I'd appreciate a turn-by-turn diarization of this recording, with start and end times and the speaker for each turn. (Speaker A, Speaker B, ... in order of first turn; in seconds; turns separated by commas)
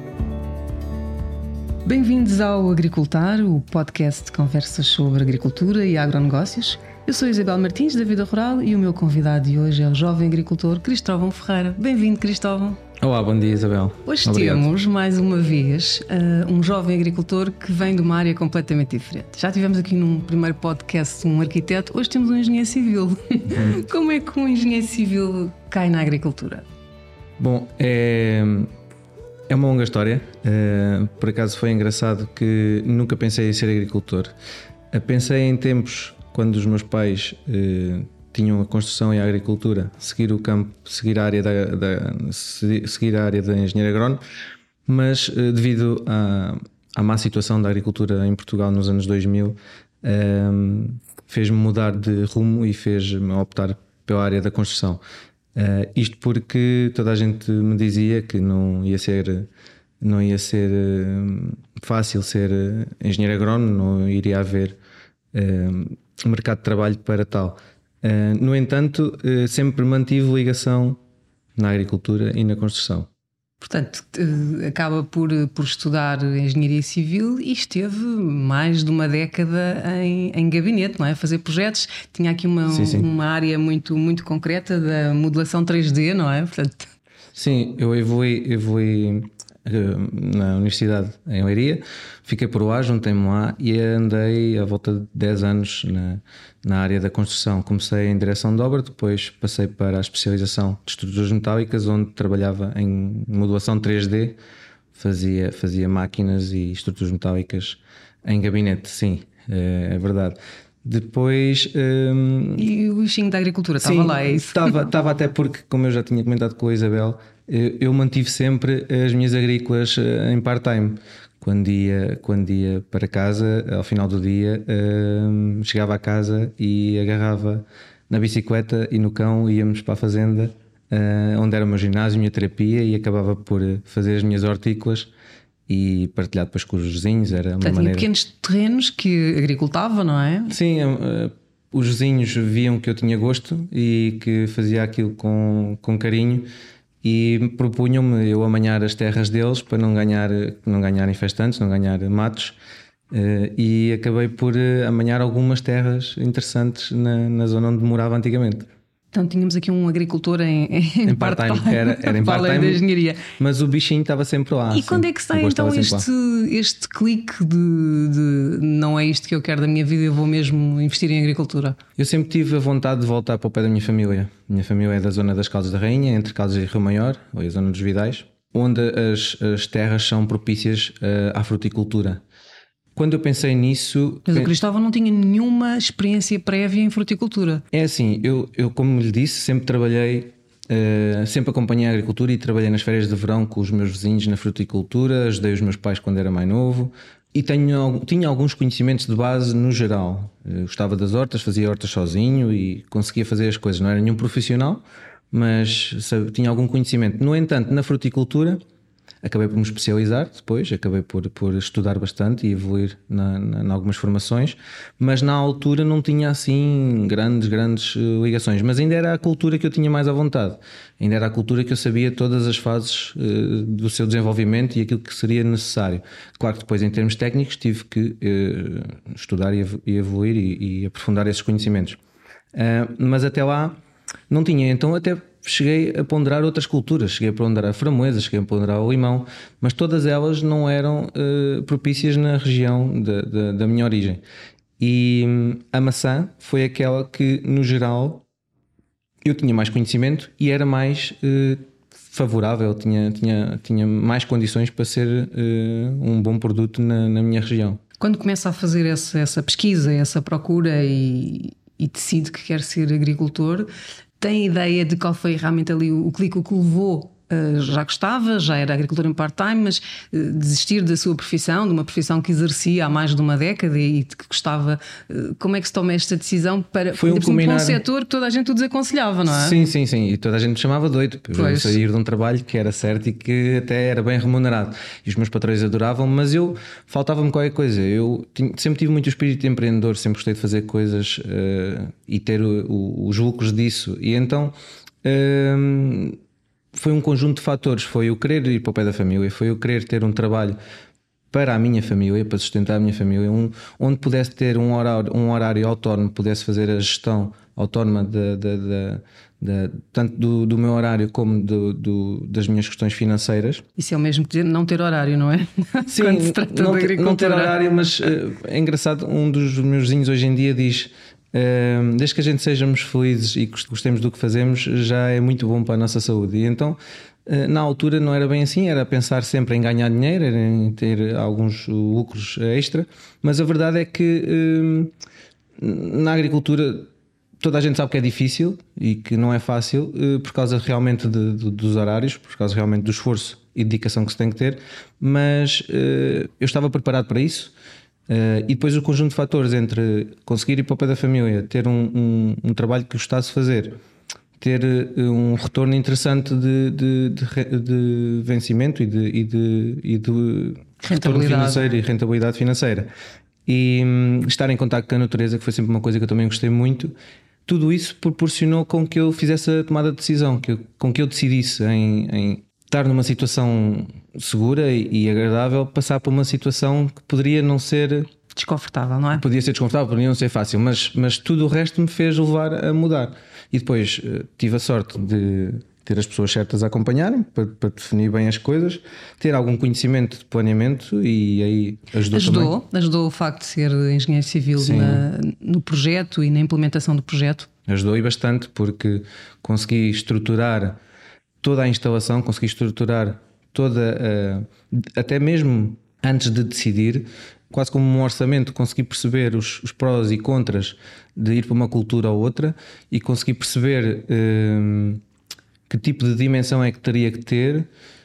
Speaker A: 1.9-12.8, Speaker B: 13.0-14.7, Speaker A: 14.1-26.6, Speaker B: 23.5-23.8, Speaker B: 27.4-28.7, Speaker B: 29.5-34.3, Speaker B: 34.9-44.2, Speaker B: 44.9-55.0, Speaker B: 55.5-59.5, Speaker B: 60.0-64.8, Speaker B: 65.3-71.0, Speaker B: 71.6-73.1, Speaker A: 73.6-86.9, Speaker B: 82.7-83.1, Speaker B: 87.3-104.4, Speaker B: 104.9-112.7, Speaker A: 112.6-114.8, Speaker B: 113.8-135.1, Speaker B: 135.7-138.1, Speaker A: 137.6-140.6, Speaker B: 140.5-146.5, Speaker B: 147.0-152.6, Speaker B: 153.1-158.7, Speaker A: 159.1-163.3, Speaker B: 161.1-166.1, Speaker A: 164.7-171.8, Speaker B: 172.0-182.2, Speaker B: 182.9-184.5, Speaker A: 184.3-187.6, Speaker B: 187.7-208.6, Speaker B: 209.2-232.0, Speaker B: 232.5-244.2, Speaker B: 244.8-248.2, Speaker B: 249.2-257.8, Speaker A: 258.0-279.6, Speaker B: 276.9-277.8, Speaker B: 279.3-296.2, Speaker A: 281.3-281.8, Speaker B: 296.7-300.6, Speaker B: 301.3-313.6, Speaker A: 313.8-317.6, Speaker B: 315.9-334.9, Speaker B: 335.6-347.5, Speaker B: 348.1-353.8, Speaker B: 354.4-362.9, Speaker A: 360.8-361.6, Speaker B: 363.5-366.9, Speaker B: 367.5-378.1, Speaker A: 378.3-379.2, Speaker B: 379.2-392.6, Speaker A: 392.1-397.5, Speaker B: 394.6-395.1, Speaker B: 397.7-400.8, Speaker B: 401.4-415.0, Speaker B: 415.7-417.7